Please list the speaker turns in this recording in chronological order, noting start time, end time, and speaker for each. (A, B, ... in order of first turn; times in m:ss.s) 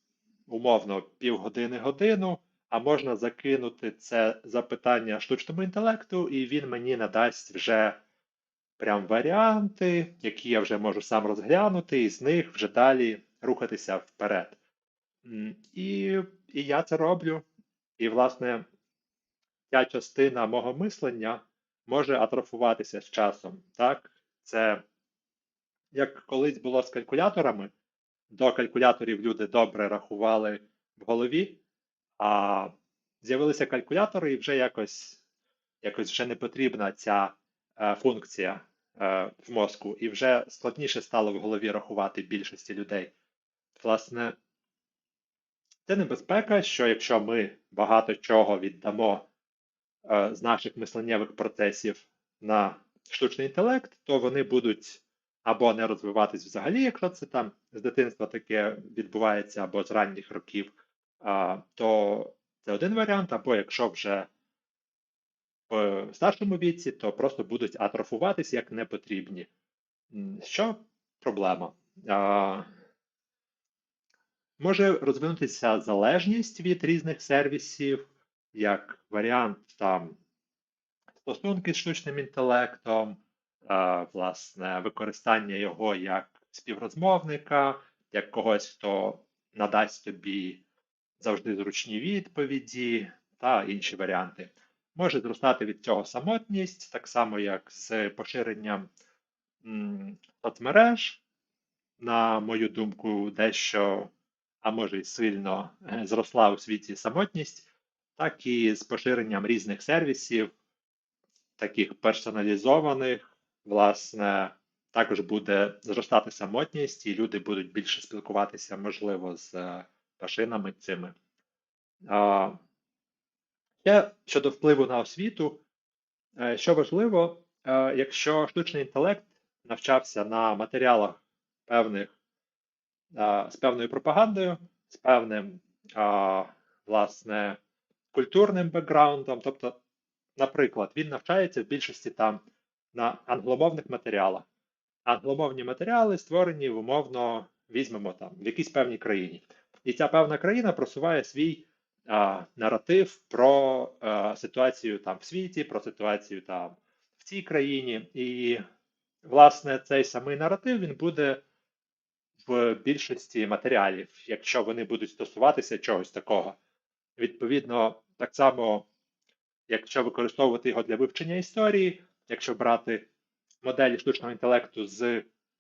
0:00.5-0:08.0 A
0:08.8-0:14.6 A
0:15.2-0:17.4 A
0:18.0-0:18.6 A
0:19.7-0:24.8 A
0:25.9-0:27.7 A
0:28.3-0:31.6 A
0:32.2-0:35.2 A
0:35.8-0:43.1 A
0:43.8-0:44.4 A
0:45.9-0:49.3 A
0:50.1-1:04.3 A
1:05.7-1:09.5 A
1:10.1-1:12.7 A
1:14.6-1:20.2 A
1:21.2-1:30.6 A
1:31.2-1:38.9 A
1:39.6-1:41.2 A
1:42.0-1:44.1 A
1:44.6-1:50.5 A
1:51.6-2:01.2 A
2:02.1-2:02.6 A
2:03.8-2:05.6 A
2:06.4-2:12.1 A
2:13.1-2:17.6 A
2:18.1-2:19.8 A
2:20.4-2:22.4 A
2:22.9-2:24.5 A
2:25.1-2:38.6 A
2:39.2-2:41.4 A
2:42.5-2:46.6 A
2:47.2-2:48.9 A
2:49.7-2:53.1 A
2:53.6-2:55.3 A